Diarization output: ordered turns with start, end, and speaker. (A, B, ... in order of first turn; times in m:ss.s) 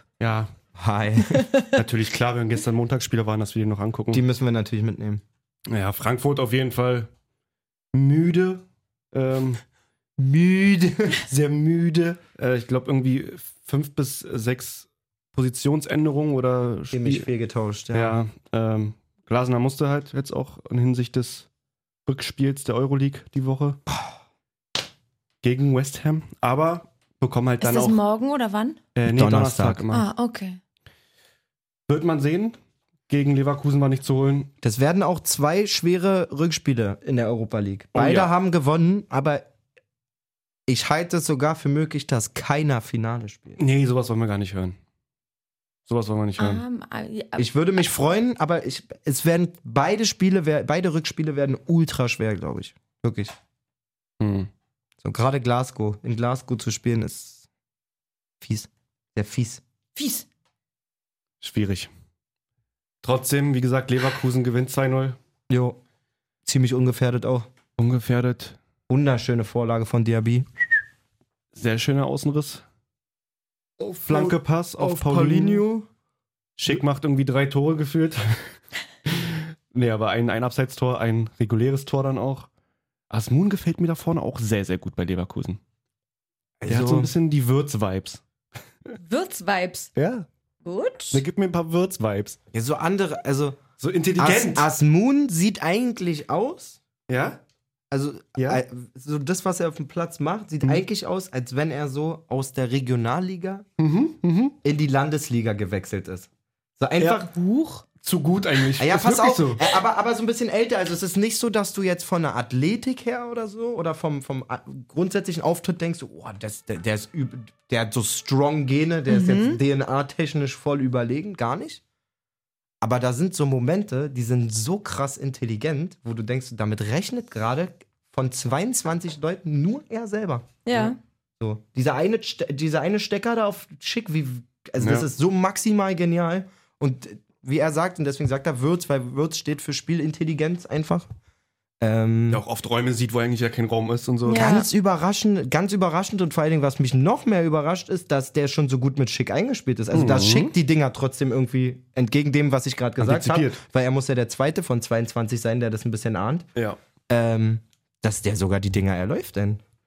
0:00.2-0:00.5 A
0:00.8-0:01.4 B
0:01.2-0:01.7 C
0:01.7-0:04.2 A
0:04.1-0:05.2 B
0:05.7-0:07.1 A
0:07.9-0:09.6 A
0:10.2-0:11.2 B
0:11.2-0:17.2 A
0:16.9-0:18.2 B
0:17.9-0:21.5 A
0:22.0-0:23.8 A
0:25.4-0:28.0 A
0:27.6-0:28.8 C
0:29.0-0:30.1 A
0:29.0-0:29.8 B
0:29.9-0:30.6 C
0:31.9-0:32.6 A
0:33.1-0:34.5 A
0:34.6-0:39.4 B
0:37.9-0:38.3 A
0:40.7-0:43.6 B
0:43.6-0:44.8 A
0:45.9-0:46.6 A
0:46.4-0:47.5 C
0:47.4-0:53.3 B
0:54.2-0:54.5 A
0:55.0-0:57.4 B
0:58.4-0:59.6 B
1:00.0-1:00.2 C
1:01.4-1:01.9 A
1:03.0-1:05.2 A
1:05.5-1:05.8 B
1:06.4-1:07.5 B
1:07.8-1:08.6 A
1:08.9-1:10.5 B
1:11.5-1:12.6 A
1:13.8-1:15.9 B
1:14.0-1:15.6 A
1:16.6-1:18.5 A
1:19.1-1:22.5 A
1:23.1-1:25.6 A
1:26.6-1:27.1 B
1:26.7-1:28.2 A
1:29.0-1:29.9 C
1:30.0-1:30.2 A
1:30.6-1:31.2 C
1:31.1-1:32.4 A
1:32.5-1:33.6 B
1:33.8-1:34.7 A
1:34.2-1:36.8 B
1:37.1-1:37.4 A
1:37.9-1:43.6 B
1:38.4-1:38.6 A
1:43.8-1:44.5 A
1:44.6-1:47.5 B
1:47.0-1:47.2 A
1:47.8-1:49.7 A
1:48.8-2:01.8 B
1:59.1-1:59.6 C
2:02.8-2:10.6 B
2:10.6-2:11.0 C
2:11.4-2:21.1 B
2:14.8-2:15.0 A
2:21.8-2:22.4 B
2:22.3-2:24.6 A
2:24.3-2:24.6 C
2:24.3-2:36.4 B
2:29.9-2:30.5 A
2:33.0-2:33.6 A
2:37.1-2:39.6 B